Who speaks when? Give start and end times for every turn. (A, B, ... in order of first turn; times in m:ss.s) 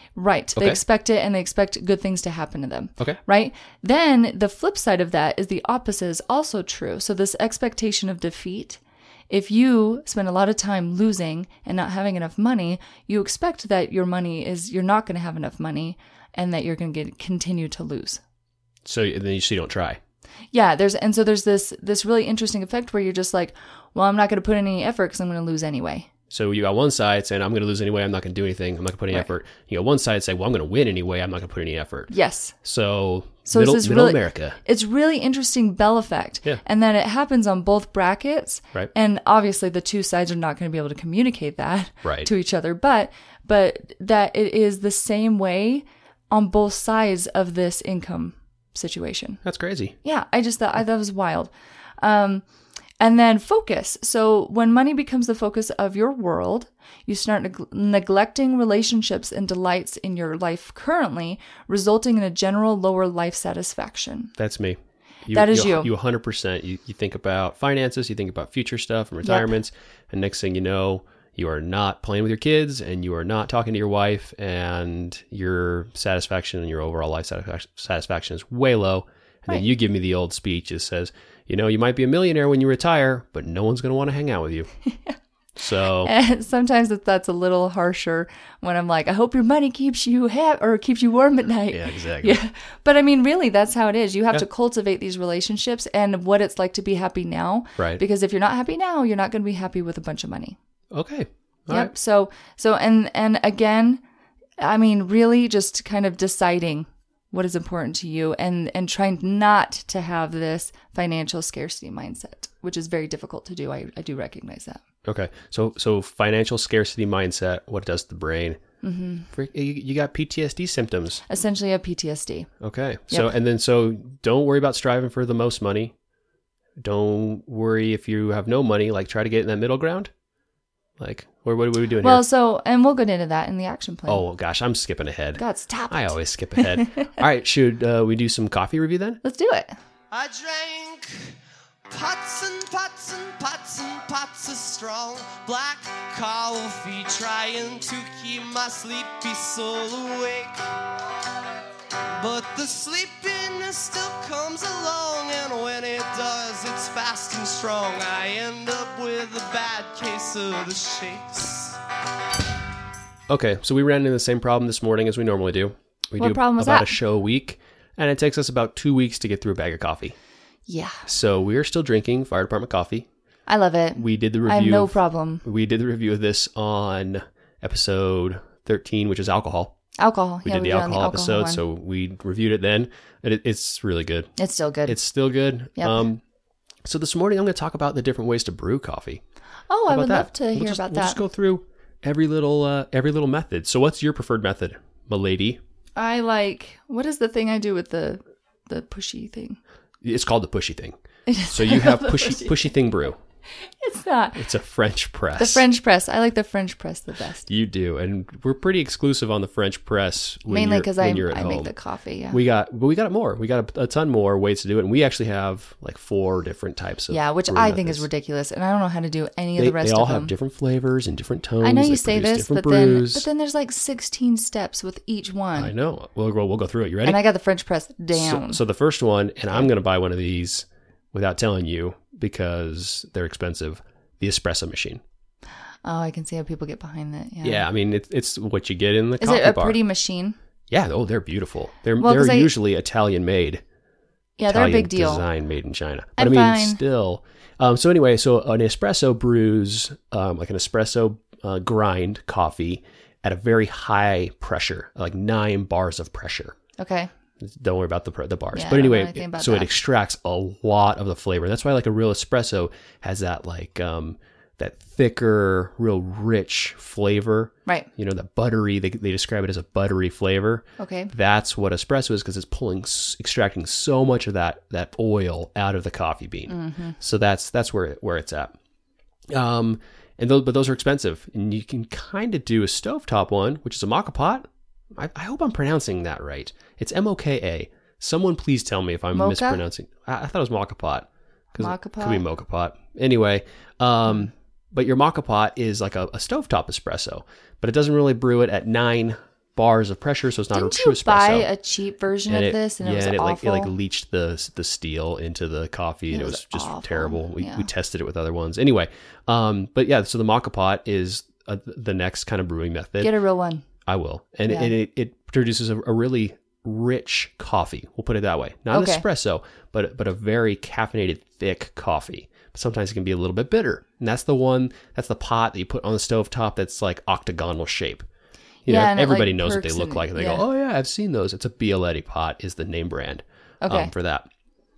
0:00.2-0:18.2 A
0:00.6-0:00.8 B
0:18.8-0:20.0 B
0:20.5-0:26.1 A
0:26.3-0:34.6 B
0:32.1-0:32.6 A
0:33.5-0:49.4 A
0:42.0-0:42.3 B
0:49.4-0:49.9 B
0:50.0-0:52.4 A
0:53.0-1:04.3 A
1:04.4-1:24.7 B
1:05.3-1:05.9 A
1:09.2-1:09.5 A
1:24.9-1:25.2 A
1:25.6-1:26.1 B
1:26.0-1:40.6 A
1:31.7-1:32.4 B
1:40.9-1:41.9 B
1:41.7-1:44.0 A
1:44.6-1:54.8 A
1:55.0-1:58.6 B
1:58.8-1:59.3 A
1:59.3-2:01.2 B
2:01.3-2:02.5 A
2:02.6-2:05.9 B
2:06.8-2:10.1 B
2:11.0-2:12.2 B
2:12.0-2:14.2 A
2:14.1-2:19.2 B
2:15.4-2:17.0 A
2:19.2-2:19.8 A
2:20.1-2:21.4 C
2:21.9-2:30.6 C
2:32.2-2:41.8 C
2:43.3-2:50.2 B
2:46.2-2:46.9 A
2:50.7-2:51.0 A
2:51.0-2:53.1 B
2:53.5-2:55.4 A
2:54.0-2:59.7 B
3:00.0-3:01.6 A
3:00.4-3:04.3 B
3:04.4-3:05.0 A
3:04.8-3:06.2 B
3:05.8-3:06.0 A
3:06.8-3:09.2 B
3:09.7-3:11.2 A
3:09.9-3:15.6 B
3:16.0-3:19.6 A
3:20.0-3:23.2 B
3:21.3-3:22.5 A
3:23.6-3:24.4 A
3:24.4-3:25.6 B
3:25.4-3:27.5 A
3:27.5-3:31.7 B
3:30.5-3:32.4 A
3:32.3-3:38.0 B
3:37.1-3:40.3 A
3:39.6-3:43.3 B
3:41.6-3:45.7 A
3:45.6-3:47.2 B
3:47.0-3:48.6 A
3:48.1-3:55.0 B
3:55.8-3:57.6 A
3:57.4-3:59.8 B
3:59.2-4:00.4 A
4:00.7-4:03.6 B
4:02.0-4:02.5 A
4:04.4-4:05.2 A
4:04.5-4:16.6 B
4:06.2-4:06.8 A
4:16.8-4:17.1 A
4:17.4-4:38.5 B
4:18.5-4:19.7 A
4:30.8-4:31.1 A
4:36.5-4:37.0 A
4:39.3-5:01.5 B
4:49.1-4:49.6 A
4:51.6-4:52.2 A
5:00.5-5:03.7 A
5:02.3-5:13.1 B
5:06.1-5:07.7 A
5:13.0-5:13.6 A
5:13.8-5:28.0 B
5:14.5-5:14.7 A
5:18.7-5:19.0 A
5:28.6-5:30.4 A
5:28.6-5:34.3 B
5:33.6-5:33.9 A